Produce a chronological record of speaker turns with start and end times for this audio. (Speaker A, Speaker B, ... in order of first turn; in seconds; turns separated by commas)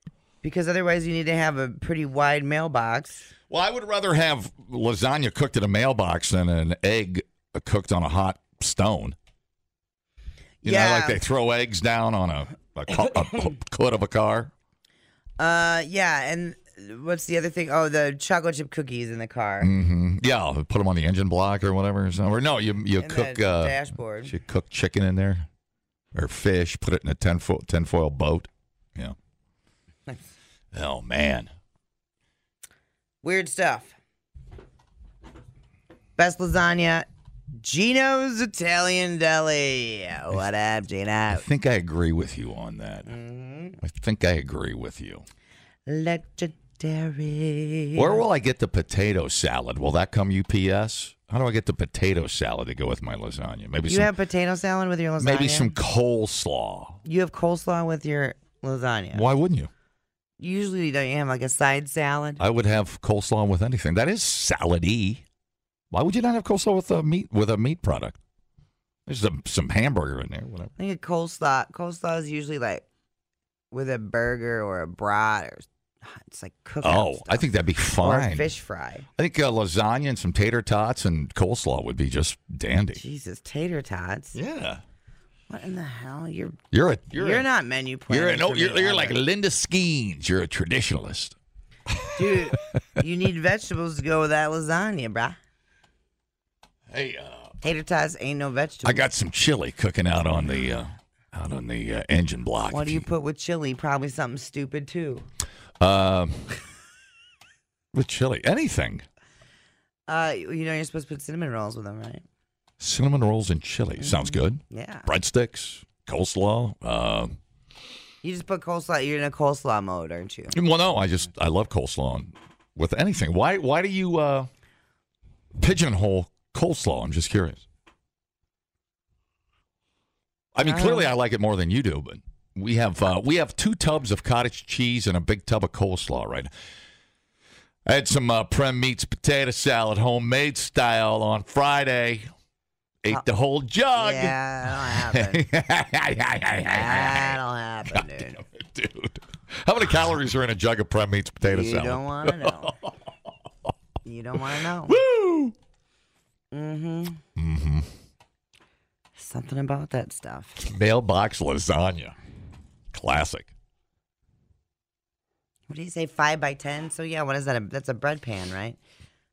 Speaker A: 0.4-3.3, Speaker B: 3.5-9.2, Speaker A: 10.6-11.2, Speaker B: 10.6-14.5, Speaker A: 15.4-19.7, Speaker B: 19.6-25.5, Speaker A: 23.0-24.3, Speaker B: 26.1-29.1, Speaker B: 30.7-31.5, Speaker A: 33.2-33.9, Speaker A: 36.2-41.4, Speaker B: 41.3-43.1, Speaker A: 43.0-43.8, Speaker B: 43.8-45.2, Speaker A: 45.9-48.2, Speaker B: 47.9-54.1, Speaker A: 53.9-55.7, Speaker B: 55.2-57.0, Speaker A: 57.0-59.2, Speaker B: 59.1-59.7, Speaker A: 60.4-62.4, Speaker B: 62.4-65.2, Speaker B: 65.9-68.2, Speaker B: 69.0-70.7, Speaker A: 70.8-72.8, Speaker A: 73.7-79.1, Speaker B: 76.8-78.5, Speaker B: 79.2-83.0, Speaker A: 83.0-84.4, Speaker B: 84.3-84.8, Speaker A: 85.5-86.6, Speaker B: 86.7-87.5, Speaker A: 87.1-89.2, Speaker B: 88.1-91.3, Speaker B: 91.9-92.3, Speaker A: 92.1-95.4, Speaker B: 96.9-97.6, Speaker A: 97.6-99.0, Speaker B: 98.8-103.1, Speaker A: 102.7-105.2, Speaker B: 105.8-106.5, Speaker B: 107.9-109.0, Speaker A: 110.1-112.2, Speaker B: 112.8-117.4, Speaker A: 114.0-115.1, Speaker A: 118.2-120.5, Speaker B: 120.5-124.5, Speaker B: 125.6-127.6, Speaker B: 130.5-136.5, Speaker A: 130.6-131.1, Speaker B: 137.8-142.3, Speaker B: 143.0-147.4, Speaker A: 143.9-145.4, Speaker A: 146.6-148.4, Speaker B: 147.9-152.9, Speaker A: 151.5-152.8, Speaker A: 154.0-155.0, Speaker B: 154.8-155.5, Speaker A: 156.5-157.2, Speaker B: 157.3-157.9, Speaker A: 159.2-160.6, Speaker B: 160.6-162.1, Speaker B: 162.9-163.5, Speaker A: 165.7-168.8